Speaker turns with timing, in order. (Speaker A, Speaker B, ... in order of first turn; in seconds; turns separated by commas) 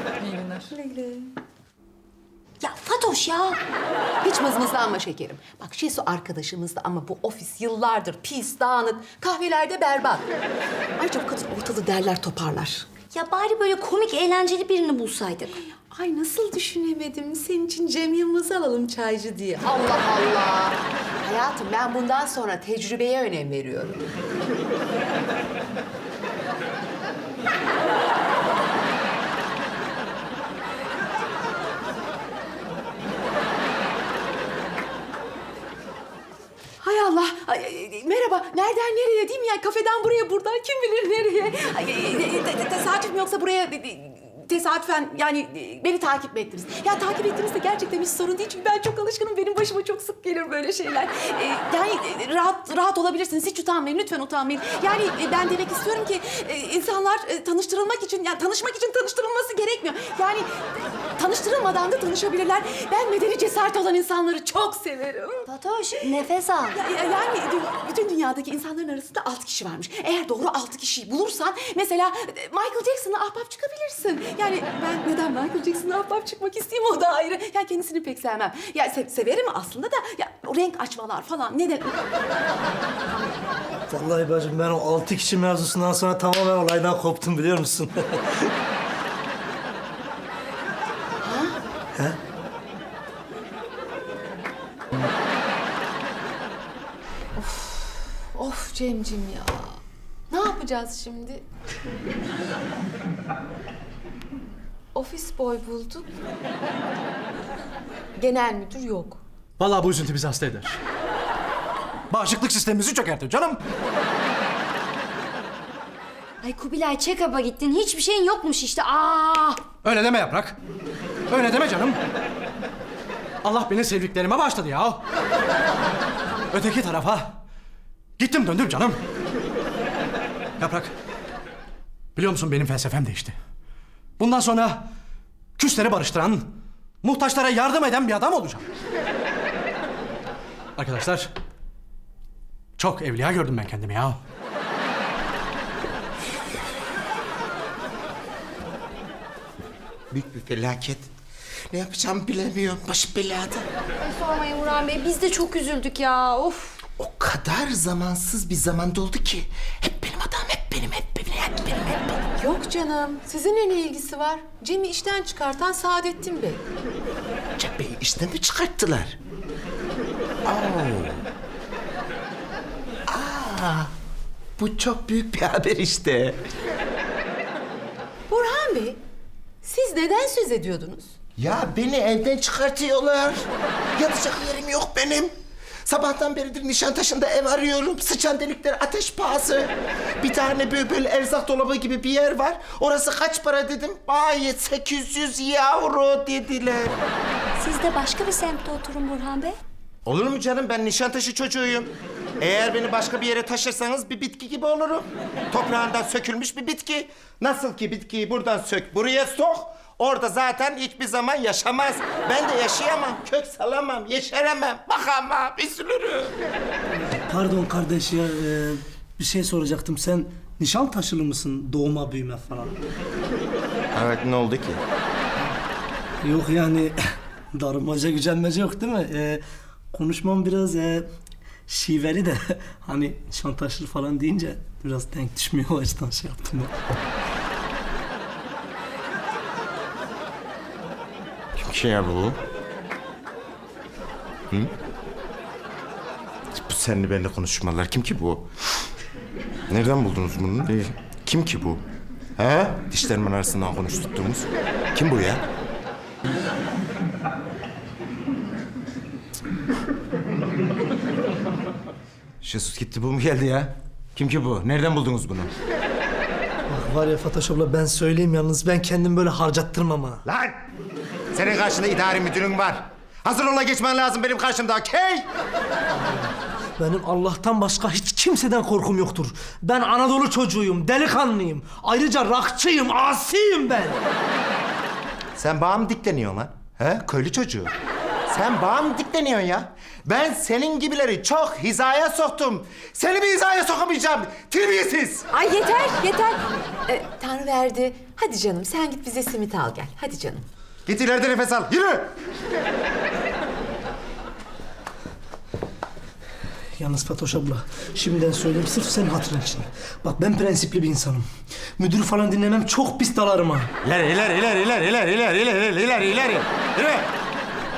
Speaker A: 0.7-1.3, Speaker B: 2.6-3.6, Speaker A: 4.2-10.3, Speaker A: 11.0-12.9, Speaker B: 13.1-15.5, Speaker A: 15.9-24.0, Speaker A: 36.8-65.5, Speaker B: 65.5-66.8, Speaker A: 66.7-82.0, Speaker C: 83.9-88.5, Speaker A: 91.2-91.6, Speaker A: 97.4-99.8, Speaker A: 100.3-101.4, Speaker A: 104.9-106.1, Speaker A: 108.2-109.2, Speaker D: 109.6-110.8, Speaker D: 112.1-113.6, Speaker B: 116.4-119.6, Speaker D: 119.8-120.6, Speaker D: 121.3-122.0, Speaker D: 123.4-125.0, Speaker D: 126.5-127.3, Speaker D: 128.2-129.0, Speaker D: 130.6-130.9, Speaker D: 132.2-133.3, Speaker D: 134.2-134.8, Speaker D: 135.6-136.5, Speaker D: 137.0-138.6, Speaker D: 140.8-141.3, Speaker D: 142.8-144.2, Speaker E: 150.1-151.1, Speaker E: 151.7-153.7, Speaker B: 154.0-156.8, Speaker E: 157.0-162.2, Speaker A: 162.4-166.6, Speaker E: 167.6-169.2, Speaker E: 170.4-171.2, Speaker E: 173.1-173.9, Speaker E: 174.6-176.4, Speaker A: 178.3-179.0, Speaker A: 179.6-181.2, Speaker E: 181.4-185.3, Speaker E: 185.8-197.0, Speaker B: 197.6-199.6, Speaker E: 200.1-216.3, Speaker C: 216.9-222.8, Speaker E: 223.9-224.8, Speaker C: 226.2-227.0, Speaker C: 227.5-229.4, Speaker C: 229.9-231.1, Speaker C: 231.7-236.7, Speaker E: 241.6-242.4, Speaker E: 246.5-248.5, Speaker E: 249.7-251.8, Speaker E: 252.4-255.4, Speaker E: 262.4-265.5, Speaker C: 266.7-270.2, Speaker E: 270.2-270.6, Speaker E: 271.3-275.3, Speaker C: 275.9-284.0, Speaker E: 285.4-287.7, Speaker E: 288.3-295.3, Speaker A: 295.3-300.4, Speaker E: 300.9-302.1, Speaker C: 306.8-311.3, Speaker C: 311.8-313.7, Speaker E: 313.8-317.1